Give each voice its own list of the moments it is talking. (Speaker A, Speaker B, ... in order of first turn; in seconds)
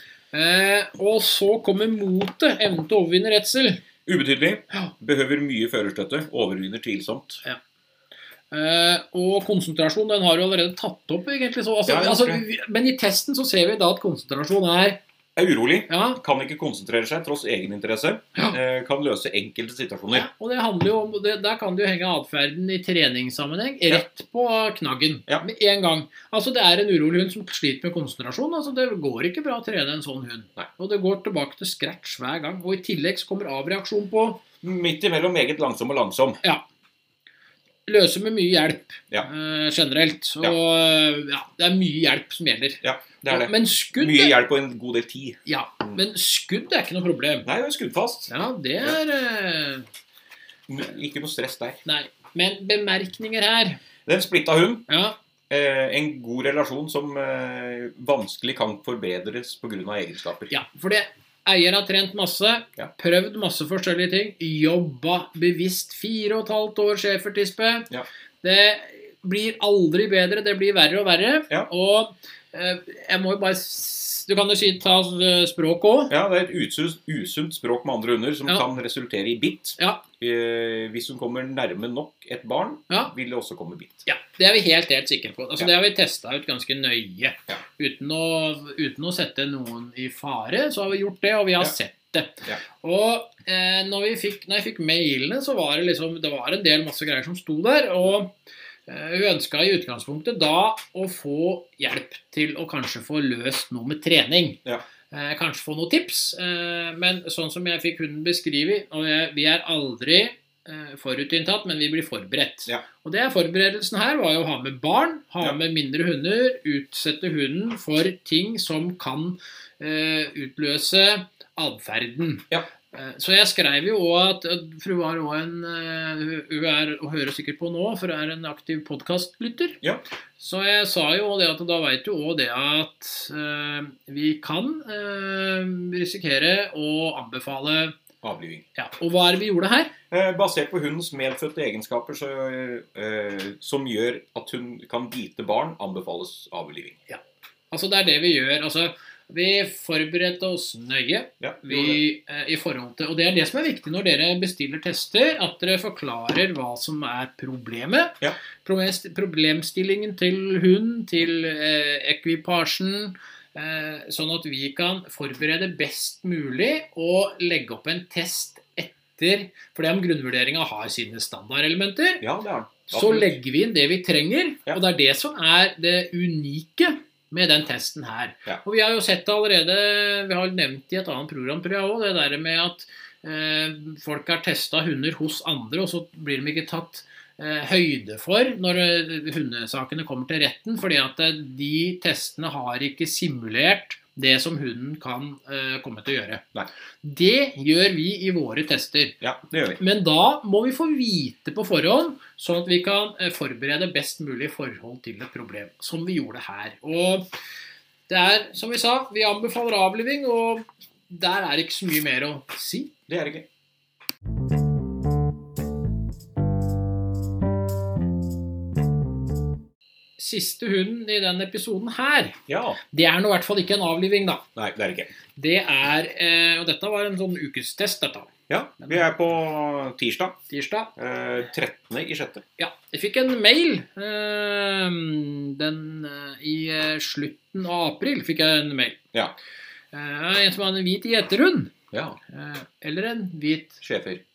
Speaker A: 0.3-3.8, 8.5-15.0, 15.9-16.2, 20.1-34.4, 37.9-44.4, 45.5-47.5, 48.3-49.9, 51.8-53.8, 54.9-55.1, 60.5-67.9, 68.4-76.1, 79.8-80.0, 84.0-98.3, 98.9-129.8, 130.4-137.9, 138.7-139.9, 147.7-172.2, 172.9-196.4, 197.0-199.2, 199.8-207.3, 208.1-212.9, 220.2-224.4, 225.3-228.3, 230.5-230.9, 232.6-239.0, 239.9-241.7, 242.3-243.8
Speaker B: 4.0-7.4, 11.9-12.4, 15.3-20.3, 34.6-36.4, 42.8-46.0, 47.4-49.0, 50.7-51.8, 54.0-54.9, 55.5-60.5, 76.1-84.0, 138.2-138.6, 140.1-147.0, 151.4-152.0, 172.2-173.3, 199.2-199.8, 213.1-213.5, 222.5-222.8, 224.6-225.1, 228.5-230.4, 230.9-232.4, 241.9-242.2, 243.8-244.2